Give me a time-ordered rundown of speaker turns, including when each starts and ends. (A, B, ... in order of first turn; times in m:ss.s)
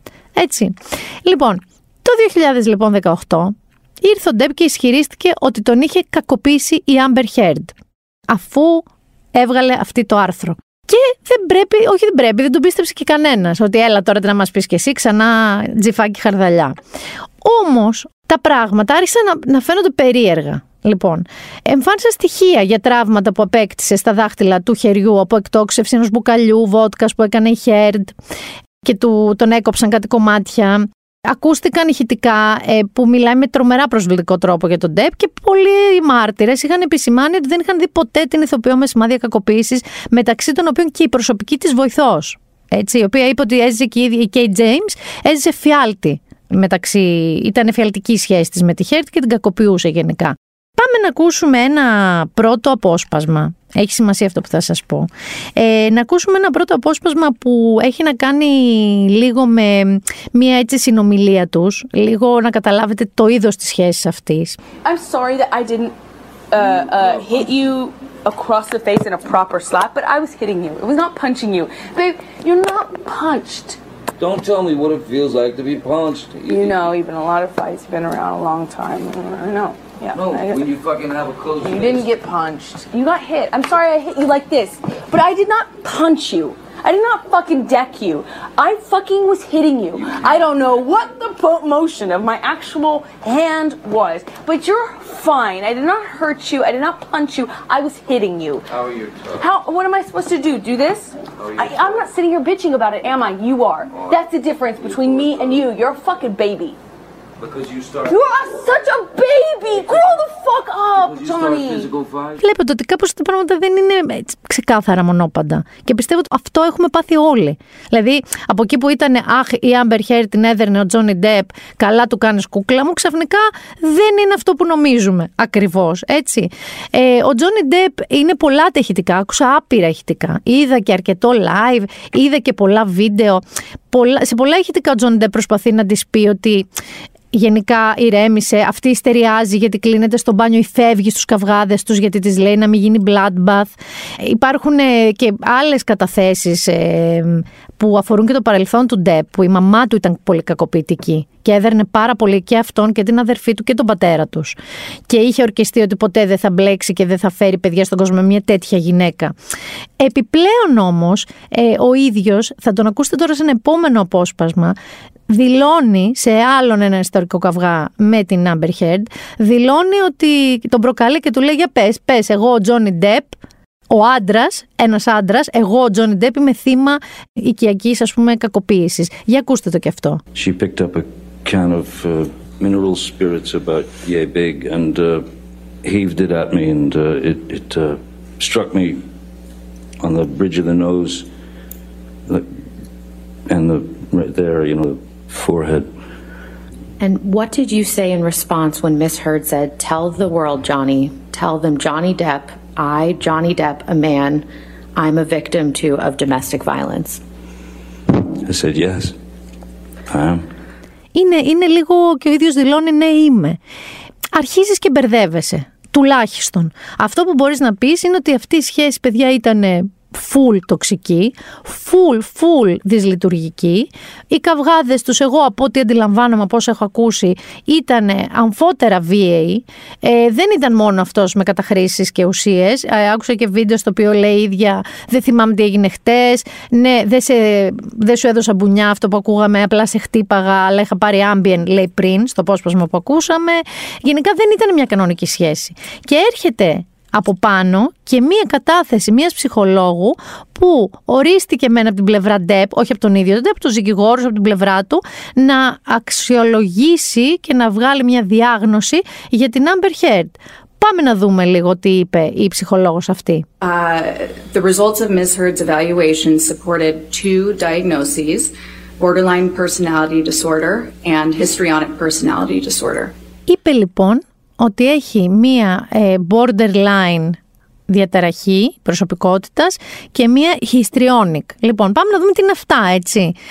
0:00.4-0:07.8 A
0:08.3-0:16.8 A
0:17.4-0:28.2 A
0:28.8-1:04.6 A
1:04.8-1:05.9 B
1:06.5-1:13.8 B
1:14.2-1:16.9 C
1:16.4-1:20.7 B
1:20.1-1:22.1 C
1:21.6-1:38.7 B
1:38.8-1:39.3 C
1:39.3-1:46.8 B
1:41.4-1:41.8 C
1:47.4-1:48.2 C
1:48.0-1:51.9 B
1:51.0-1:52.4 C
1:52.4-2:16.7 A
2:17.3-2:39.4 A
2:40.0-2:44.8 A
2:45.3-2:53.4 A
2:53.9-3:00.2 A
3:00.4-3:05.3 D
3:05.8-3:09.0 D
3:10.0-3:11.3 D
3:13.5-3:15.9 D
3:17.0-3:27.2 E
3:28.4-3:29.2 D
3:30.1-3:30.4 D
3:31.1-3:33.6 A
3:34.3-4:23.4 A
4:23.6-4:33.1 F
4:33.5-4:43.4 A